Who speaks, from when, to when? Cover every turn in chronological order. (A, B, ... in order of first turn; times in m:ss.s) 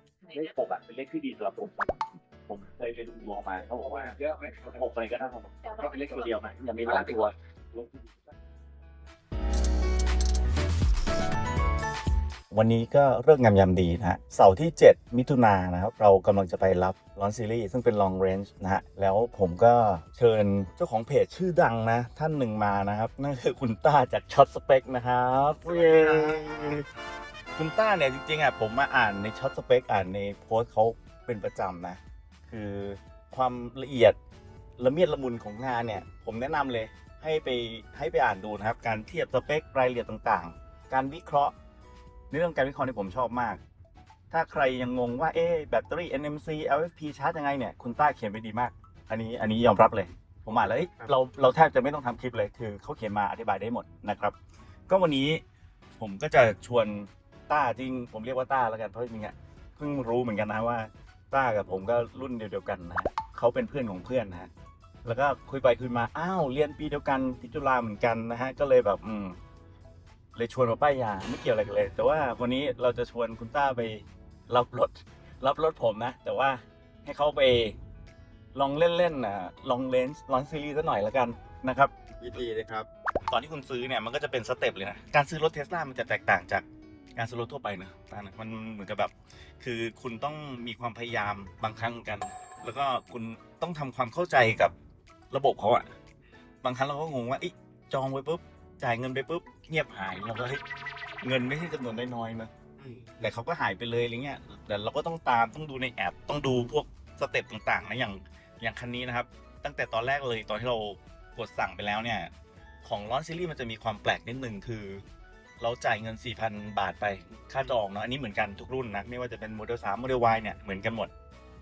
0:00.3-0:07.3 A
0:12.5-0:26.8 A
0:25.6-0:26.7 B
0:27.6-0:34.2 A
0:34.8-0:41.5 A
0:42.3-0:43.6 A
0:44.3-0:54.4 A
0:50.6-0:51.1 B
0:54.9-0:55.4 A
0:56.0-1:04.5 A
1:05.0-1:09.4 A
1:10.3-1:17.8 A
1:18.5-1:21.9 A
1:22.2-1:22.9 B
1:23.3-1:26.6 A
1:27.2-1:34.7 A
1:35.3-1:35.9 A
1:36.6-1:40.6 A
1:41.2-1:42.5 A
1:42.8-1:43.2 B
1:43.2-1:52.3 A
1:52.8-1:55.0 A
1:55.6-2:01.1 A